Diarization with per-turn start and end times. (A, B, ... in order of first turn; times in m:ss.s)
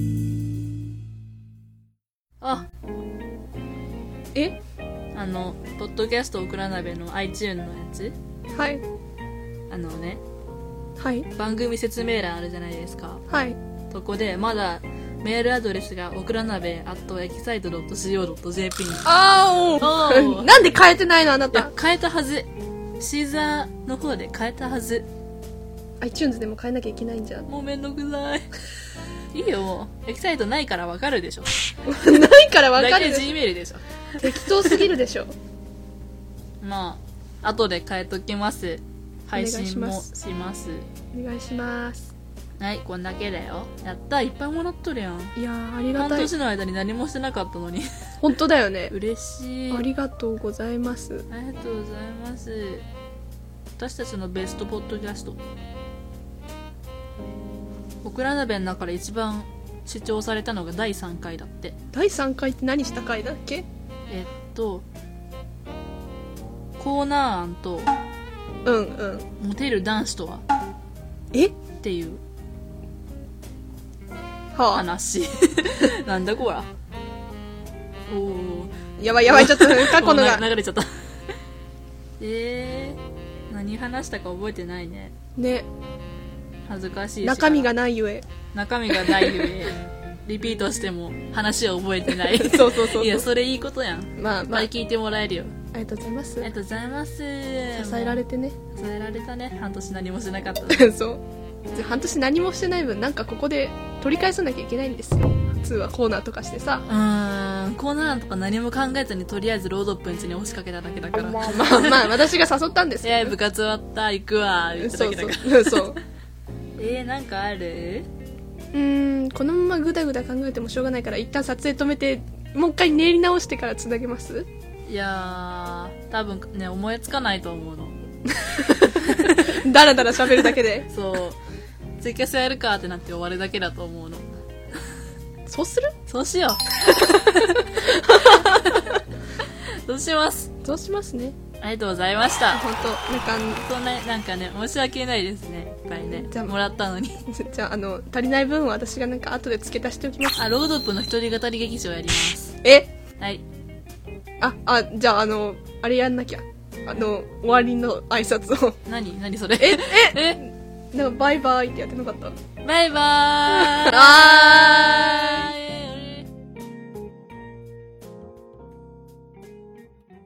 0:02.4-0:02.7 A
0:05.1-0:08.2 A
0:08.6-0:08.8 B
0:09.7-0:10.2 A
0:11.0-0:11.3 B
0:11.4-0:13.2 A
0:13.3-0:13.6 B
0:13.9-0:19.1 A
0:19.0-0:21.7 B
0:19.8-0:20.5 A
0:21.5-0:25.1 A
0:26.0-0:27.5 B
0:27.5-0:28.5 A
0:29.3-0:31.7 A
0:31.9-0:33.3 B
0:32.8-0:34.8 A
0:34.2-0:35.3 B
0:36.6-0:40.9 A
0:39.3-0:40.1 B
0:41.1-0:42.1 B
0:42.6-0:45.4 A
0:45.4-0:46.3 B
0:46.0-0:47.9 A
0:48.2-0:48.9 B
0:48.9-0:49.9 A
0:49.7-0:51.3 B
0:51.3-0:52.9 A
0:53.8-0:55.4 A
0:58.0-1:01.8 A
1:01.9-1:03.7 B
1:04.1-1:04.9 A
1:06.8-1:07.9 A
1:08.6-1:09.3 B
1:09.4-1:10.4 A
1:11.8-1:12.2 A
1:14.6-1:14.8 B
1:14.7-1:16.7 A
1:18.1-1:20.9 A
1:19.0-1:20.5 B
1:22.2-1:25.1 A
1:25.4-1:25.7 B
1:26.7-1:27.7 A
1:27.2-1:28.3 B
1:28.5-1:35.6 A
1:28.9-1:29.4 B
1:32.1-1:33.3 B
1:34.2-1:34.7 B
1:35.7-1:36.5 B
1:36.4-1:38.2 A
1:37.8-1:38.6 B
1:38.7-1:40.9 A
1:40.7-1:41.2 B
1:41.7-1:46.8 B
1:46.9-1:52.1 A
1:51.4-1:53.3 B
1:53.0-1:56.0 A
1:54.8-1:56.0 B
1:56.8-1:58.1 A
1:58.7-2:04.5 B
2:04.9-2:08.0 A
2:08.4-2:10.9 B
2:08.6-2:09.6 A
2:10.9-2:11.4 A
2:12.0-2:14.2 A
2:15.5-2:15.9 B
2:16.1-2:20.5 A
2:17.4-2:19.0 B
2:20.6-2:21.4 B
2:21.6-2:22.6 A
2:22.5-2:23.6 B
2:23.6-2:27.2 A
2:26.0-2:26.6 B
2:27.3-2:30.4 B
2:30.4-2:32.6 A
2:32.6-2:32.9 B
2:34.4-2:38.8 B
2:38.9-2:40.4 A
2:39.6-2:42.4 B
2:42.6-2:46.3 A
2:43.5-2:45.5 B